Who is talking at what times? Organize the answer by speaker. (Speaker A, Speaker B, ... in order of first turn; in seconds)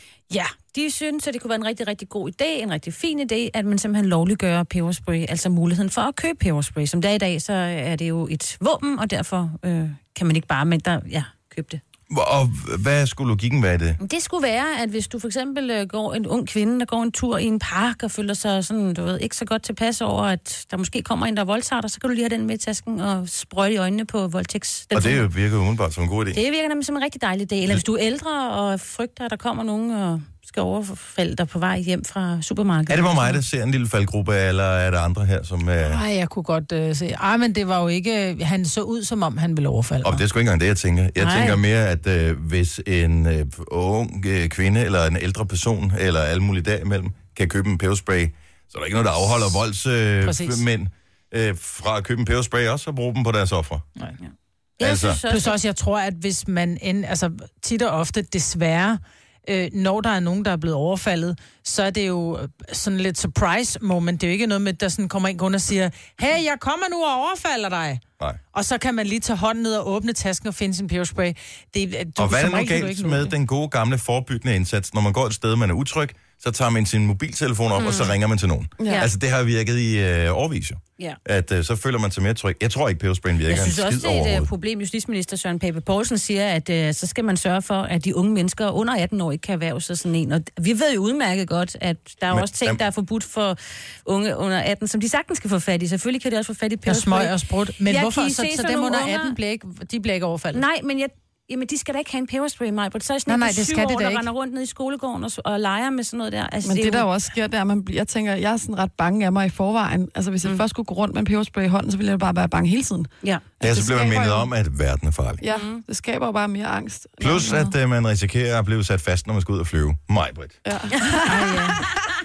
Speaker A: 0.3-11.8, 14.0-25.3, 26.3-33.4, 41.2-41.6, 54.2-55.6, 77.8-78.2, 78.8-79.1, 83.5-99.4, 100.5-107.1, 115.5-115.8
Speaker B: 12.1-14.0, 24.9-26.4, 32.9-36.0, 40.0-53.9, 54.8-55.2, 72.2-84.5, 92.3-92.8, 113.6-115.4, 117.2-120.6
Speaker C: 35.8-40.2, 50.2-50.6, 55.3-68.0, 68.5-73.3, 96.8-100.6, 103.3-104.2, 121.2-121.9
Speaker D: 78.8-79.0, 106.6-114.5, 115.4-117.7, 120.6-121.9